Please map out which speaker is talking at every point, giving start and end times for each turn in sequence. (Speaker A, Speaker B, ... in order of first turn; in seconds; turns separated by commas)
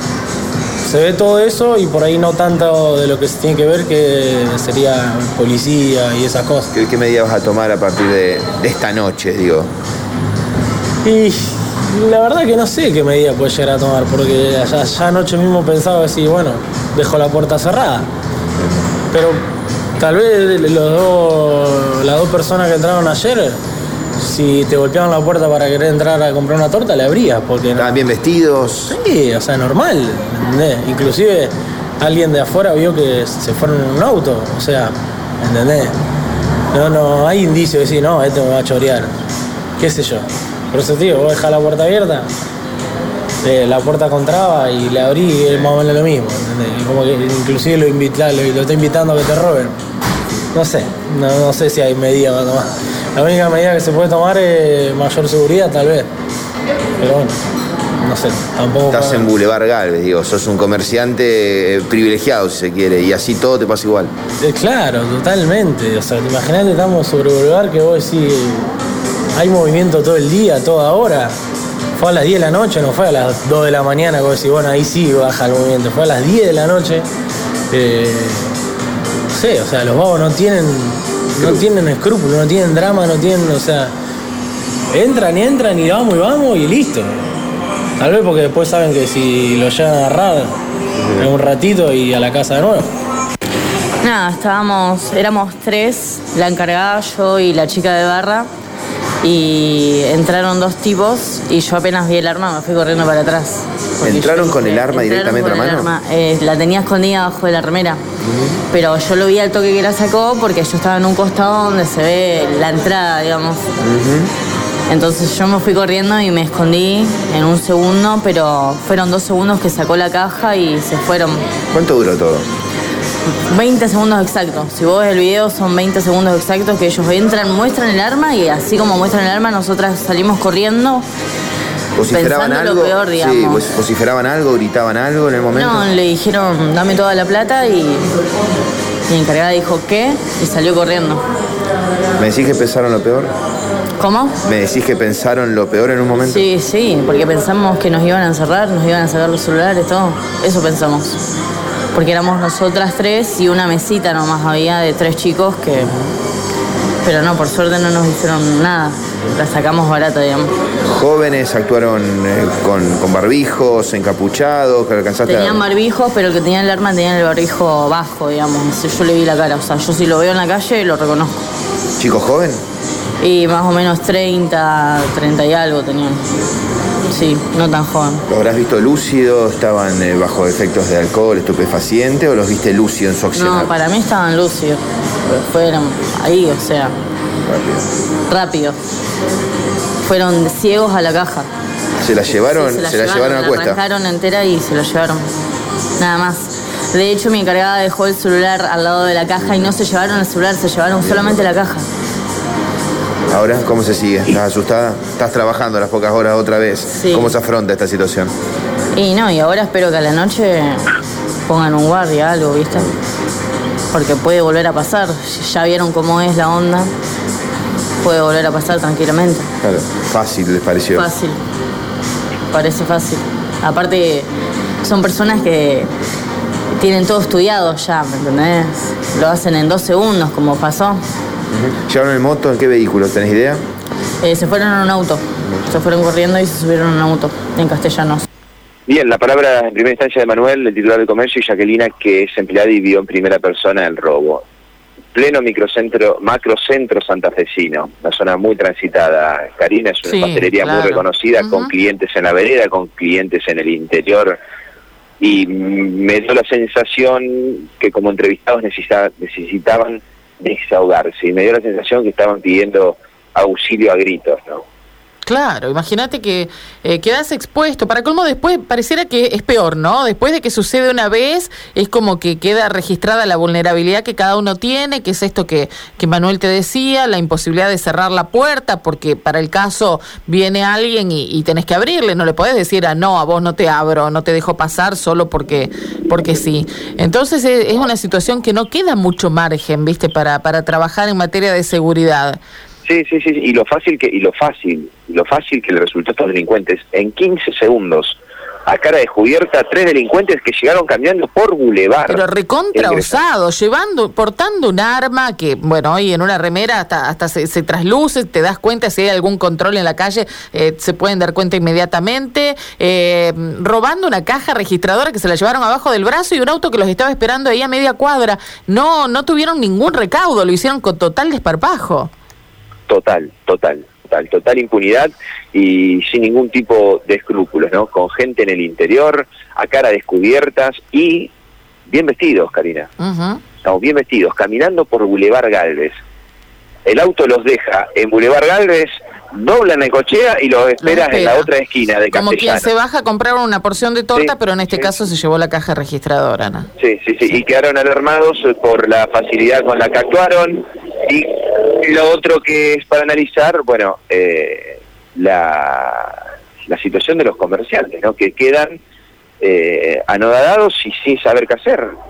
Speaker A: 0.8-6.7, Speaker B: 6.7-9.7, Speaker A: 11.0-18.1, Speaker A: 19.1-19.4, Speaker A: 20.0-23.6, Speaker A: 24.2-27.9, Speaker B: 27.8-28.9, Speaker A: 28.9-35.9, Speaker A: 36.7-39.1, Speaker A: 39.8-42.3, Speaker A: 43.4-49.8, Speaker A: 50.5-56.1, Speaker A: 57.0-57.4, Speaker A: 58.0-59.3, Speaker B: 58.9-64.1, Speaker A: 64.4-68.7, Speaker A: 69.3-71.3, Speaker A: 72.0-77.1, Speaker A: 77.7-78.5, Speaker A: 79.3-83.9, Speaker A: 84.9-87.2, Speaker A: 88.0-90.5, Speaker A: 91.2-92.9, Speaker C: 94.0-98.5, Speaker C: 99.2-108.0, Speaker B: 104.0-105.9, Speaker B: 108.2-108.6, Speaker C: 108.7-113.6, Speaker B: 113.8-114.3, Speaker C: 114.9-121.5, Speaker B: 121.7-122.5, Speaker C: 123.5-131.1, Speaker B: 132.0-135.9, Speaker C: 132.1-133.6, Speaker C: 135.6-138.1, Speaker C: 139.1-141.2, Speaker B: 142.2-143.3, Speaker C: 144.0-144.4, Speaker B: 144.4-146.5, Speaker C: 146.2-151.2, Speaker C: 151.9-155.9, Speaker C: 157.0-160.5, Speaker B: 160.9-165.6, Speaker C: 165.3-171.4, Speaker B: 172.0-172.6, Speaker C: 173.2-176.2, Speaker C: 177.1-178.2, Speaker B: 178.3-183.7, Speaker C: 183.3-186.9, Speaker B: 187.4-187.8, Speaker C: 188.3-188.8, Speaker C: 190.1-191.5, Speaker B: 192.0-193.8, Speaker C: 192.2-195.2, Speaker C: 196.0-201.9, Speaker B: 199.4-199.7, Speaker B: 201.0-201.5, Speaker B: 203.3-208.3, Speaker C: 206.9-207.3, Speaker C: 208.9-210.9, Speaker C: 211.5-213.0, Speaker C: 213.9-216.9, Speaker C: 218.0-219.5, Speaker B: 219.6-221.1, Speaker C: 220.9-221.4, Speaker C: 222.5-224.3, Speaker C: 224.8-225.9, Speaker C: 226.8-231.0, Speaker B: 231.5-233.6, Speaker C: 234.2-238.2, Speaker D: 238.9-244.4, Speaker D: 245.1-254.4, Speaker E: 250.0-251.7, Speaker D: 255.2-264.6, Speaker E: 265.3-292.4, Speaker D: 292.9-303.2, Speaker E: 302.1-322.1, Speaker D: 322.9-331.3, Speaker D: 331.9-332.9, Speaker E: 333.0-333.4, Speaker D: 333.6-335.9, Speaker D: 336.9-342.7, Speaker E: 340.8-341.5, Speaker E: 342.1-346.7, Speaker D: 344.1-344.9, Speaker D: 346.8-358.8, Speaker D: 359.4-361.9